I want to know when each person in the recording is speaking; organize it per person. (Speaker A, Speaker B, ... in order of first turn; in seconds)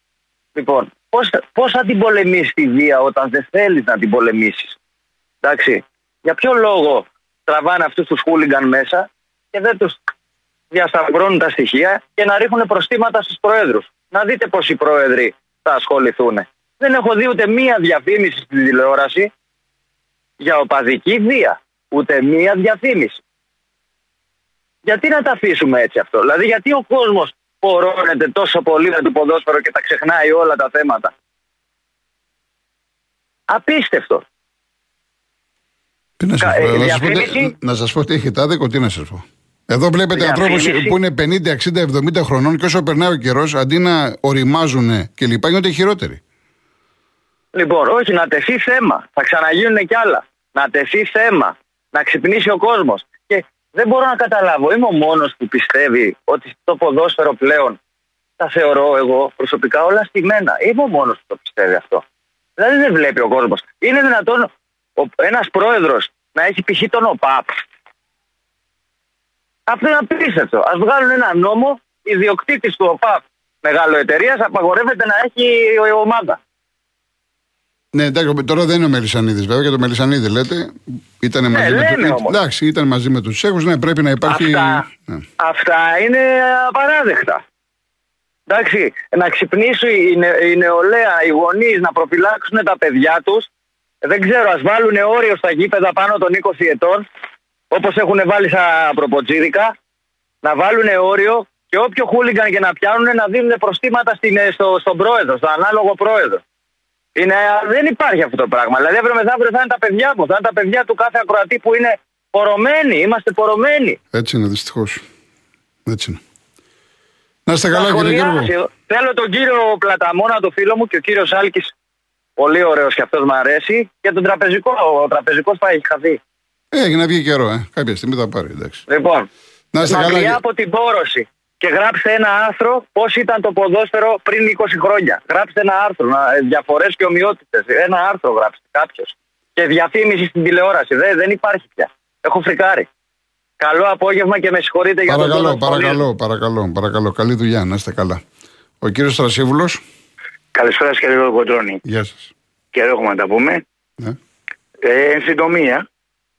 Speaker A: 0.6-4.8, 5.4-10.0, 10.7-19.3, 20.4-23.2, 24.9-31.1, 33.5-34.2, 36.4-37.5, 40.1-40.9, 47.5-57.8, 58.4-62.0, 62.6-67.6, 69.7-76.4, 81.5-82.3, 84.2-84.8, 85.4-87.4, 88.5-93.5, 94.0-97.0, 97.7-99.7, 100.4-106.4, 107.1-114.0, 117.7-121.7, 122.4-126.2, 128.9-129.3, 129.8-142.9, 143.6-146.0
Speaker B: 36.2-46.2, 77.9-85.2, 114.1-115.0, 115.8-116.2, 117.5-118.5, 126.7-128.8, 129.7-130.4, 145.1-148.2, 148.8-149.8, 151.8-152.3
Speaker C: 150.5-151.8, 152.7-153.6, 154.8-155.8